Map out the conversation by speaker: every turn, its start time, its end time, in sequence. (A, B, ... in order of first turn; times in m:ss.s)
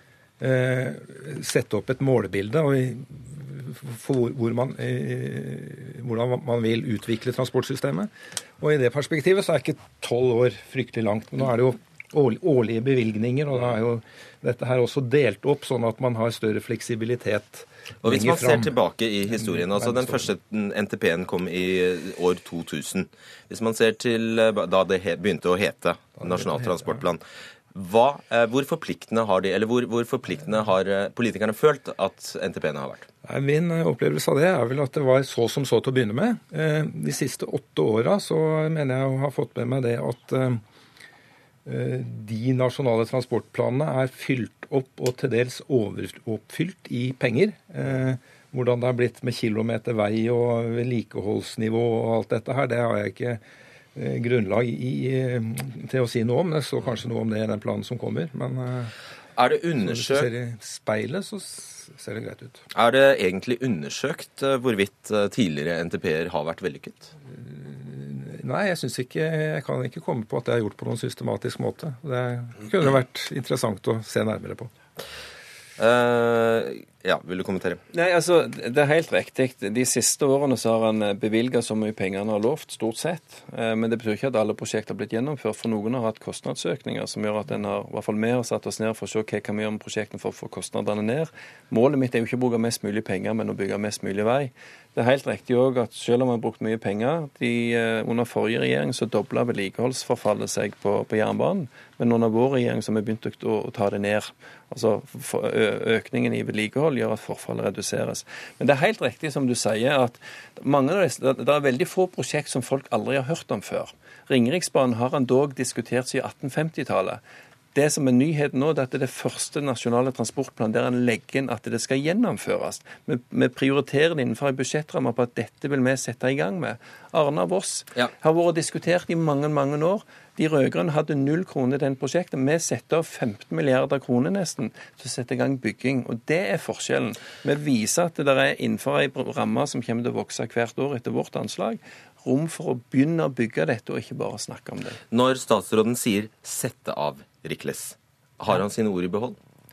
0:00.4-0:18.8 A
0:18.0-0:27.2 B
0:19.3-0:20.3 A
0:26.2-0:27.0 A
0:27.7-0:33.1 B
0:33.2-0:40.6 A
0:41.7-0:53.4 A
0:54.0-0:58.9 A
0:59.4-1:00.3 B
0:59.8-1:02.6 A
1:02.7-1:07.1 B
1:07.3-1:14.7 A
1:15.8-1:17.8 B
1:17.9-1:57.2 C
1:57.7-2:25.0 C
2:25.1-2:29.4 B